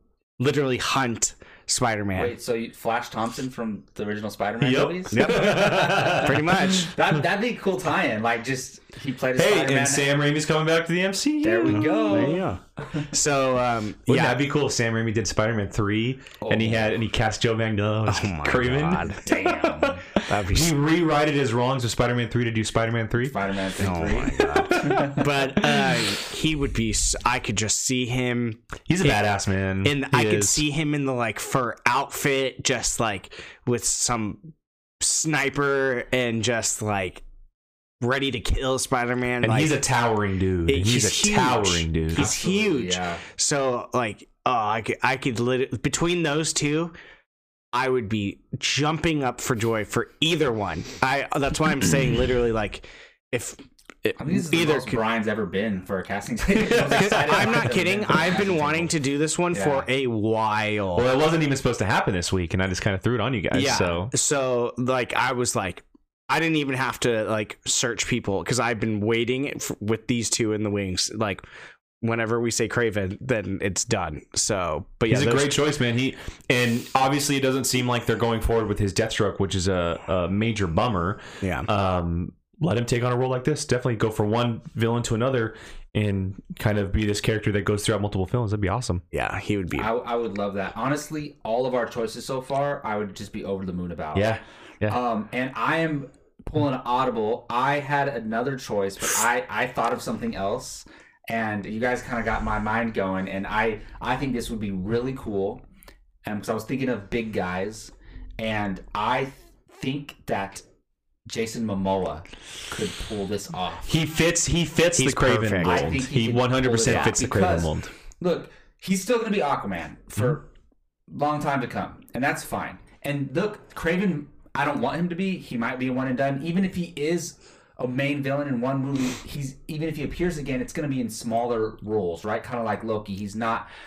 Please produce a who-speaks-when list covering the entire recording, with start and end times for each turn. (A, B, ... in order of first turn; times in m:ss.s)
0:00.4-0:02.3 A
0:02.2-0:10.1 B
0:04.6-0:06.5 C
0:05.1-0:06.9 A
0:09.4-0:12.4 C
0:11.4-0:12.4 B
0:11.6-0:14.4 A
0:14.1-0:23.4 C
0:16.4-0:16.9 B
0:18.0-0:19.3 A
0:19.2-0:20.0 B
0:20.2-0:20.7 A
0:23.2-0:25.2 B
0:23.8-0:29.2 A
0:24.4-0:26.0 C
0:28.9-0:30.6 C
0:29.8-0:34.4 A
0:35.0-0:37.2 A
0:38.0-0:39.8 A
0:39.4-0:42.3 C
0:40.7-0:46.9 A
0:42.1-0:43.2 B
0:47.7-0:55.0 A
0:54.2-0:58.9 B
0:56.5-0:57.6 C
0:56.9-1:01.1 A
0:59.5-0:59.9 B
1:00.9-1:04.1 C
1:03.5-1:11.4 A
1:12.0-1:15.6 A
1:15.1-1:29.0 C
1:21.4-1:21.7 A
1:29.1-1:29.9 A
1:29.7-1:45.6 B
1:34.1-1:35.0 C
1:46.2-1:50.6 B
1:51.3-1:53.9 B
1:53.9-1:57.9 C
1:54.9-1:56.0 A
1:55.6-2:00.5 B
2:01.1-2:13.7 B